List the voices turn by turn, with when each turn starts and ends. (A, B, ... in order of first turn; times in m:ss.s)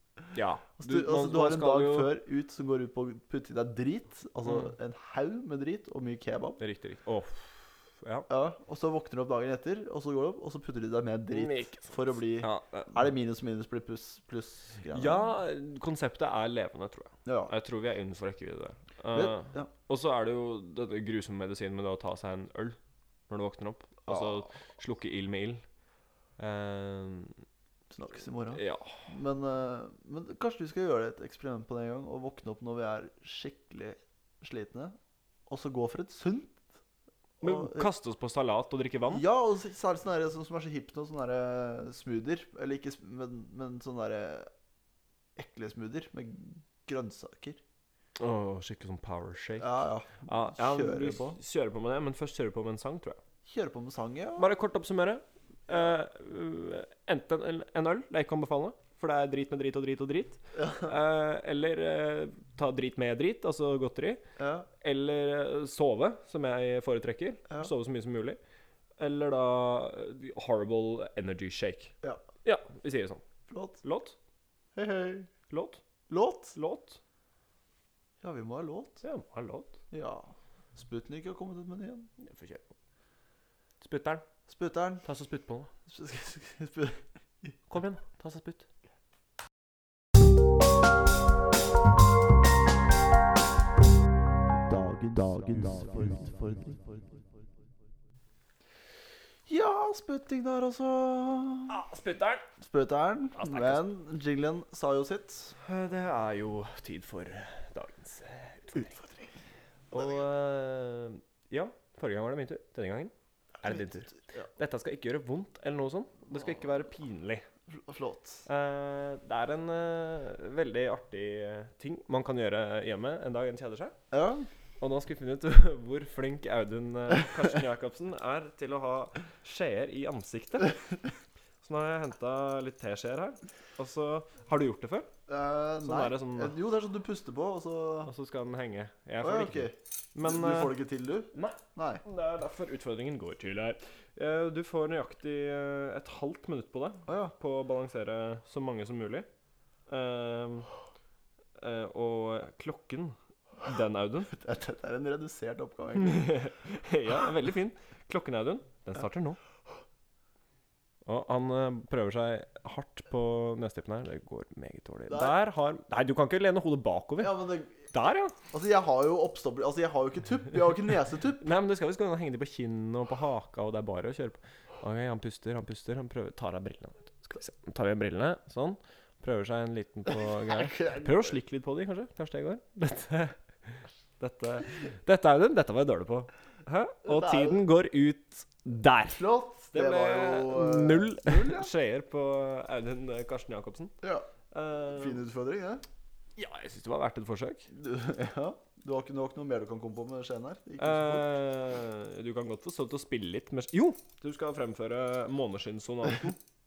0:00.3-0:02.1 A
0:00.8-0:06.6 B
0:06.6-0:08.3 A
0:08.3-0:15.2 B
0:11.3-0:13.0 A
0:14.9-0:22.8 A
0:17.2-0:17.5 B
0:19.1-0:19.7 B
0:23.3-0:25.6 A
0:24.1-0:24.4 B
0:26.4-0:27.4 A
0:27.9-0:36.6 B
0:28.5-0:29.1 A
0:37.4-0:37.9 B
0:37.4-0:39.2 A
0:39.1-0:44.5 B
0:45.4-0:47.6 B
0:48.2-0:53.2 A
0:49.6-0:51.4 B
0:53.4-0:54.5 B
0:54.4-1:04.2 A
1:00.6-1:00.9 B
1:04.4-1:04.7 B
1:04.8-1:08.4 A
1:09.0-1:13.2 A
1:13.5-1:13.8 B
1:13.8-1:14.2 A
1:14.7-1:15.3 B
1:15.5-1:15.8 A
1:16.1-1:16.6 B
1:16.5-1:17.0 A
1:18.2-1:19.0 B
1:19.0-1:19.8 A
1:19.9-1:22.1 B
1:22.2-1:22.7 A
1:23.8-1:24.2 A
1:24.5-1:25.0 B
1:25.0-1:25.7 A
1:25.8-1:27.5 B
1:27.7-1:28.7 A
1:34.7-1:36.8 B
1:39.5-1:41.8 B
1:41.7-1:42.5 A
1:42.6-1:45.5 B
1:43.3-1:43.8 A
1:45.6-1:48.9 A
1:48.7-1:49.3 B
1:49.9-1:57.4 A
1:53.6-1:54.5 B
1:57.7-1:58.4 B
1:58.4-2:04.0 A
2:04.1-2:04.5 B
2:04.8-2:10.8 A
2:11.6-2:15.1 A
2:15.3-2:18.1 B
2:15.8-2:16.6 A
2:18.0-2:20.8 A
2:19.2-2:22.0 B
2:21.3-2:29.3 A
2:27.1-2:27.3 B
2:29.9-2:30.7 A
2:31.6-2:34.3 A
2:34.3-2:36.4 B
2:35.9-2:39.4 A
2:41.0-2:48.3 A
2:45.1-2:45.4 B
2:47.2-2:47.9 B
2:48.5-2:51.4 B
2:51.4-3:13.9 A
3:00.5-3:01.4 B
3:07.0-3:07.6 B
3:09.1-3:11.7 B
3:14.0-3:14.3 B
3:14.5-3:15.2 A
3:14.9-3:15.8 B
3:16.4-3:17.7 A
3:17.7-3:21.3 B
3:20.8-3:26.4 A